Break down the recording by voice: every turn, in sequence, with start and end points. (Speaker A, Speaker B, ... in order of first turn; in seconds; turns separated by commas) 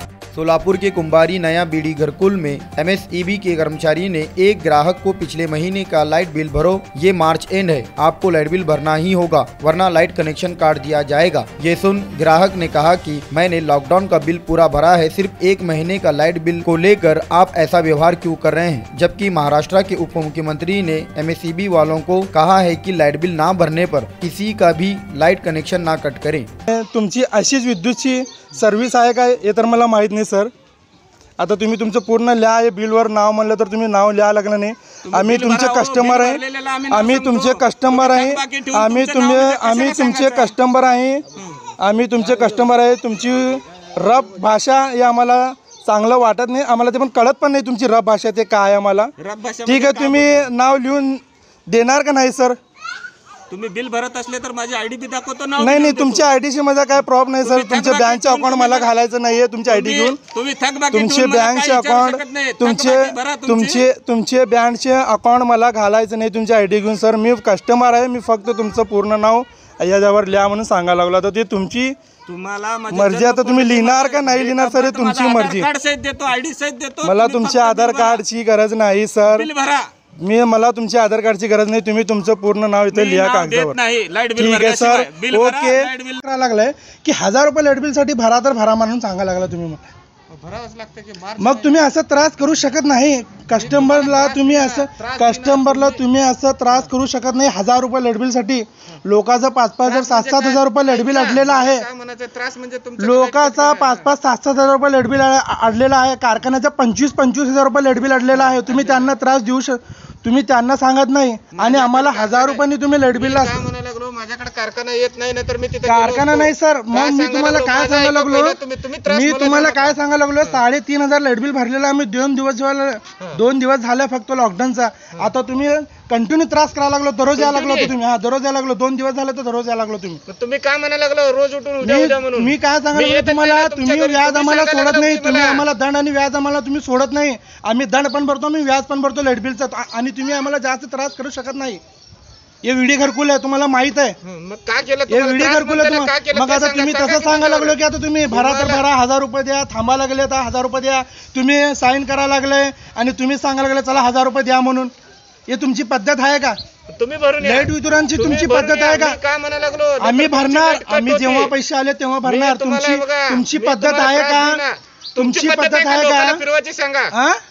Speaker A: 0.3-26.5, Speaker B: 26.7-30.5, Speaker B: 31.4-41.2, Speaker C: 35.1-40.5, Speaker B: 41.8-49.1, Speaker C: 49.2-50.5, Speaker B: 49.6-52.6, Speaker C: 53.5-56.3, Speaker B: 55.6-60.2, Speaker C: 57.4-58.9, Speaker C: 59.7-63.8, Speaker B: 60.9-72.0, Speaker C: 72.3-78.2, Speaker B: 72.9-75.7, Speaker B: 77.0-79.5, Speaker C: 79.3-79.9, Speaker B: 80.2-83.8, Speaker C: 82.9-86.2, Speaker B: 84.4-89.8, Speaker C: 90.3-91.9, Speaker B: 91.4-101.9, Speaker C: 93.5-96.0, Speaker C: 99.8-104.1, Speaker B: 103.0-113.6, Speaker C: 108.5-109.1, Speaker C: 111.5-120.6, Speaker B: 115.8-130.2, Speaker C: 127.4-127.9, Speaker C: 130.3-135.6, Speaker B: 131.8-141.8, Speaker B: 142.6-144.2, Speaker C: 144.2-148.8, Speaker B: 145.1-154.9, Speaker B: 155.5-156.6, Speaker C: 156.9-161.5, Speaker B: 157.4-159.2, Speaker B: 160.0-164.6, Speaker C: 162.2-167.1, Speaker B: 165.2-166.4, Speaker B: 167.1-167.4